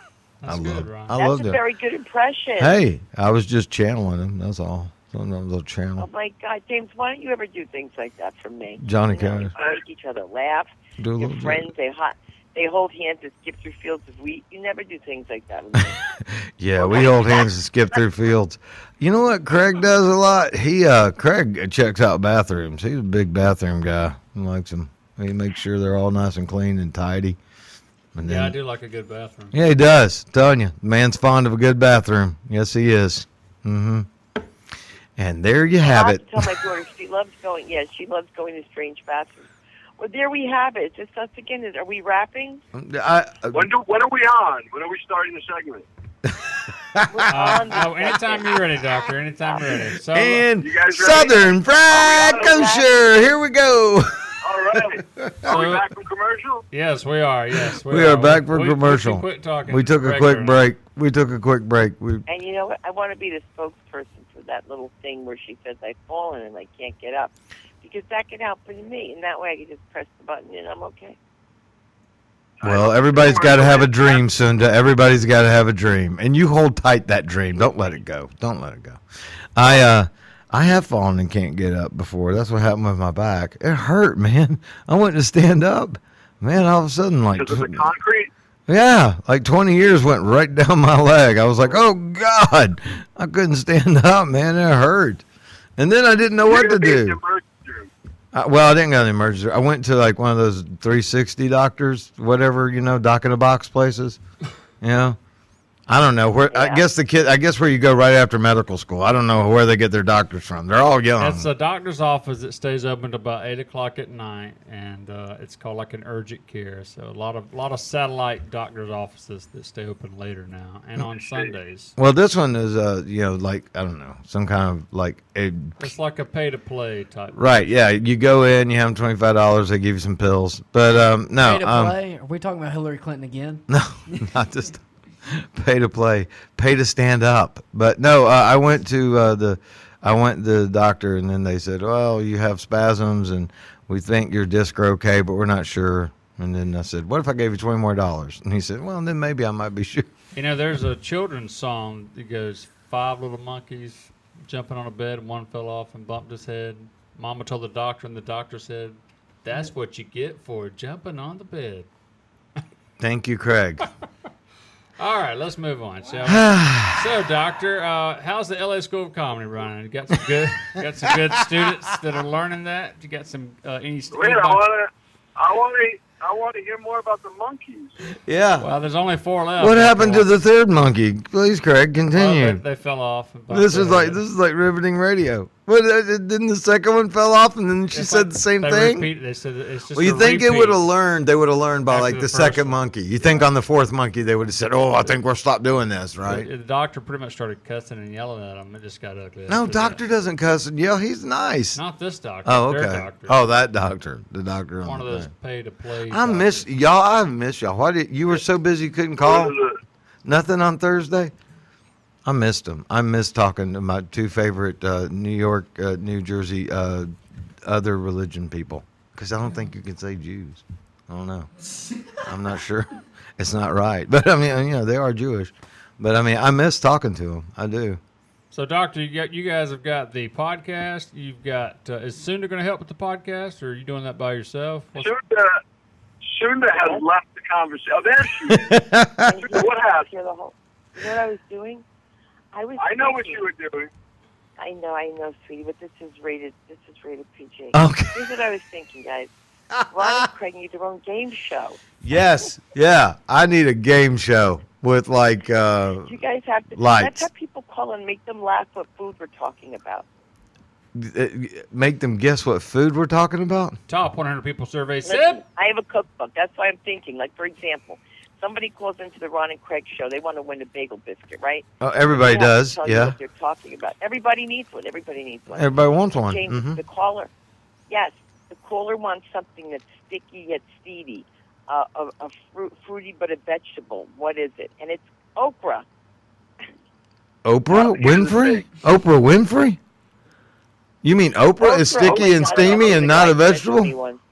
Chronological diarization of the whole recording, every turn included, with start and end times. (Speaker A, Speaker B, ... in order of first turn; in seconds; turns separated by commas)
Speaker A: 0.4-1.1, Speaker B: 0.5-1.6, Speaker C: 1.1-2.8, Speaker B: 2.6-6.1, Speaker C: 6.0-16.0, Speaker B: 8.8-9.5, Speaker B: 11.0-11.7, Speaker B: 16.2-27.4, Speaker C: 16.8-17.2, Speaker B: 28.1-28.6, Speaker A: 28.2-29.6, Speaker B: 29.5-34.1, Speaker B: 35.2-36.6, Speaker C: 35.8-42.6, Speaker B: 42.7-43.7, Speaker D: 43.5-45.9, Speaker B: 46.2-47.6, Speaker C: 47.1-48.7, Speaker A: 47.3-50.5, Speaker B: 50.1-54.1, Speaker D: 50.6-52.6, Speaker C: 52.0-52.9, Speaker D: 54.4-56.6, Speaker B: 54.8-55.5, Speaker A: 55.5-55.9, Speaker A: 56.7-60.6, Speaker B: 57.8-62.2, Speaker C: 62.3-71.2, Speaker D: 72.6-74.2, Speaker B: 72.6-79.0, Speaker B: 79.5-87.8, Speaker D: 87.3-88.3, Speaker B: 88.7-95.2, Speaker B: 95.8-97.2, Speaker D: 96.4-97.9, Speaker B: 98.3-104.2, Speaker B: 104.8-105.2, Speaker B: 105.9-111.5, Speaker C: 106.5-106.8, Speaker A: 111.2-121.9, Speaker B: 122.0-125.8, Speaker A: 125.8-127.4, Speaker B: 127.3-132.0, Speaker E: 131.4-134.3, Speaker B: 133.7-150.1, Speaker A: 150.3-161.9, Speaker B: 163.0-163.9, Speaker A: 165.0-174.7, Speaker B: 166.2-167.1, Speaker B: 171.3-171.7, Speaker D: 174.1-178.0, Speaker B: 178.2-178.7, Speaker A: 178.6-180.3, Speaker B: 179.6-182.6, Speaker A: 182.1-184.2, Speaker B: 183.5-189.1, Speaker A: 187.9-190.8, Speaker B: 189.9-196.5, Speaker A: 191.9-193.5, Speaker A: 196.2-200.0, Speaker B: 199.5-201.8, Speaker A: 201.8-203.4, Speaker B: 202.4-205.3, Speaker A: 204.8-206.7, Speaker B: 206.1-209.6, Speaker D: 209.2-209.8, Speaker B: 210.2-211.3, Speaker B: 212.2-217.1, Speaker B: 217.7-221.5, Speaker B: 222.2-228.0, Speaker A: 228.5-235.1, Speaker D: 235.0-235.6, Speaker D: 236.2-238.8, Speaker B: 238.5-239.4, Speaker C: 239.2-241.8, Speaker D: 239.3-240.1, Speaker C: 242.5-243.5, Speaker D: 242.8-243.9, Speaker C: 244.6-249.3, Speaker B: 247.7-248.3, Speaker B: 249.7-250.3, Speaker C: 249.9-251.8, Speaker B: 252.0-256.2, Speaker C: 256.1-260.1, Speaker B: 256.8-257.3, Speaker B: 260.9-263.8, Speaker A: 263.9-265.4, Speaker C: 265.1-277.3, Speaker B: 271.8-273.2, Speaker B: 275.5-276.8, Speaker C: 277.9-285.9, Speaker B: 287.4-289.8, Speaker D: 287.7-288.6, Speaker B: 291.0-293.9, Speaker C: 291.6-294.2, Speaker D: 292.0-293.1